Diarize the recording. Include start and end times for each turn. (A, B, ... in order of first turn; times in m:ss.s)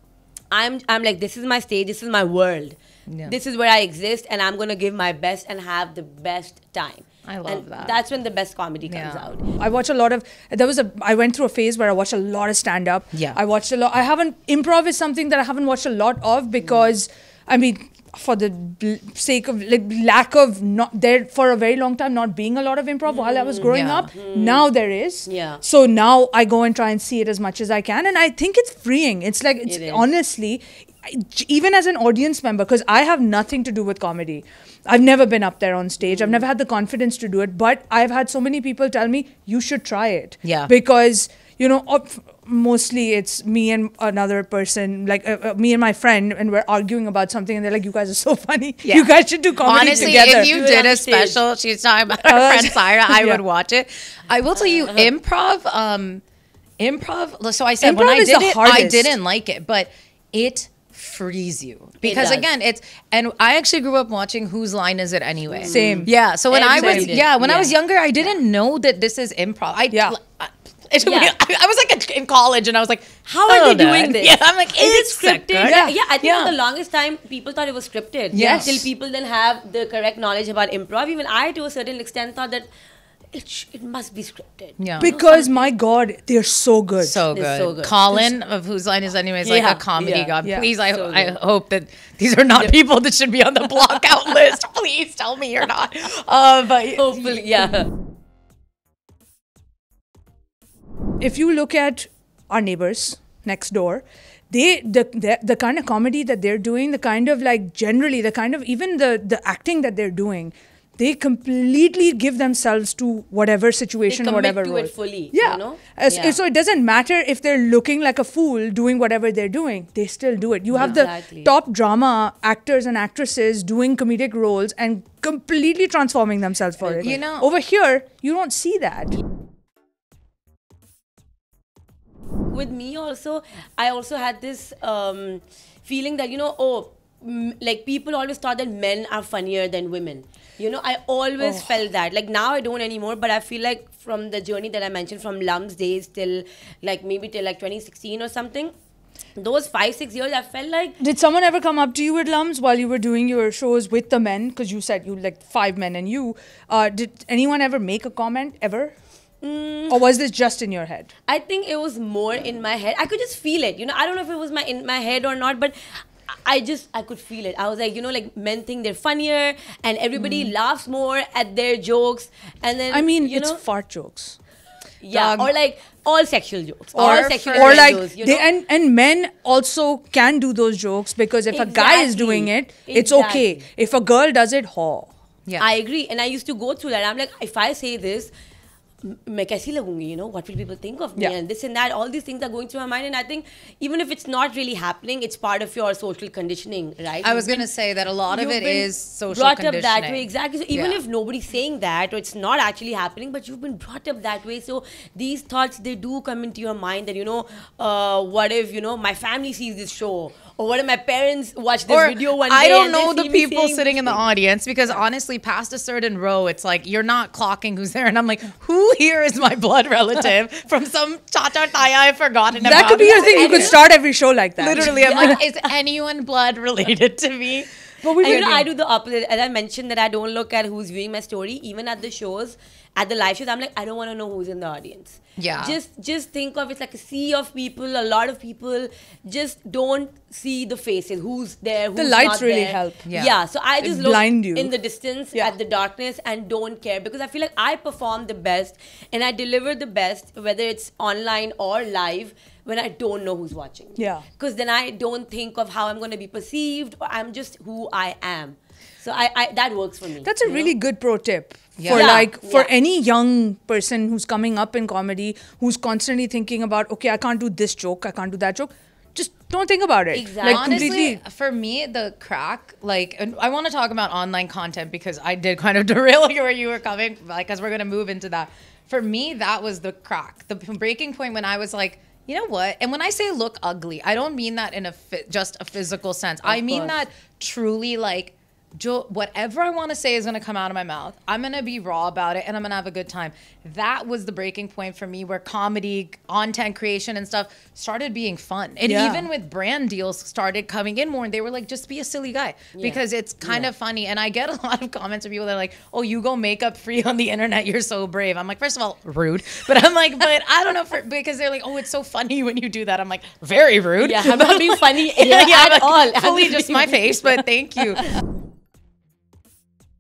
0:00.5-0:09.4 A
0:03.1-0:03.4 B
0:07.3-0:08.0 B
0:08.9-0:09.3 B
0:09.6-0:50.5 C
0:13.1-0:13.4 B
0:23.1-0:24.7 A
0:23.7-0:24.1 B
0:25.3-0:25.6 A
0:29.7-0:30.1 A
0:36.0-0:36.4 A
0:40.4-0:40.7 B
0:48.8-0:56.2 B
0:49.7-0:51.4 A
0:52.2-0:53.4 C
0:54.8-0:55.1 A
0:56.8-1:16.5 B
0:57.8-0:59.1 C
1:02.0-1:02.5 A
1:05.5-1:07.7 A
1:05.7-1:06.1 C
1:06.7-1:07.1 C
1:09.9-1:10.2 C
1:11.0-1:11.3 A
1:13.3-1:22.7 A
1:15.6-1:16.0 C
1:18.3-1:18.8 C
1:18.3-1:18.8 B
1:23.3-1:25.5 A
1:24.8-1:25.1 B
1:25.0-1:27.2 C
1:27.0-1:37.7 B
1:27.3-1:28.3 A
1:29.4-1:30.4 A
1:30.4-1:30.7 C
1:30.9-1:31.4 A
1:37.0-1:37.9 A
1:41.2-2:09.2 C
1:54.1-1:56.4 A
2:00.7-2:01.5 A
2:00.8-2:01.0 B
2:07.0-2:07.5 B
2:12.5-2:28.7 A
2:21.4-2:21.7 C
2:29.4-2:31.0 A
2:31.0-2:38.9 C
2:39.4-2:40.0 A
2:39.9-2:41.1 C
2:41.3-2:53.6 A
2:52.9-2:54.4 C
2:55.0-2:58.5 A
2:55.1-2:55.5 B
2:57.0-2:58.0 B
2:57.0-3:05.1 C
3:01.5-3:03.7 A
3:05.6-3:08.3 A
3:09.0-3:17.7 A
3:17.2-3:21.0 B
3:18.3-3:34.2 A
3:31.9-3:43.7 B
3:42.6-3:45.4 C
3:42.7-3:43.8 A
3:44.6-3:47.7 B
3:44.8-3:45.4 A
3:48.0-3:48.7 C
3:48.2-4:20.7 A
3:48.2-3:48.6 B
3:55.4-3:55.8 B
4:02.0-4:03.0 C
4:03.1-4:03.4 B
4:03.8-4:04.7 C
4:14.0-4:14.2 C
4:20.2-4:31.2 C
4:21.8-4:22.2 B
4:21.9-4:22.7 A
4:30.1-4:31.0 A
4:30.4-5:18.1 B
4:46.4-4:47.0 A
4:58.8-4:59.3 C
5:02.8-5:03.7 A
5:14.0-5:17.1 A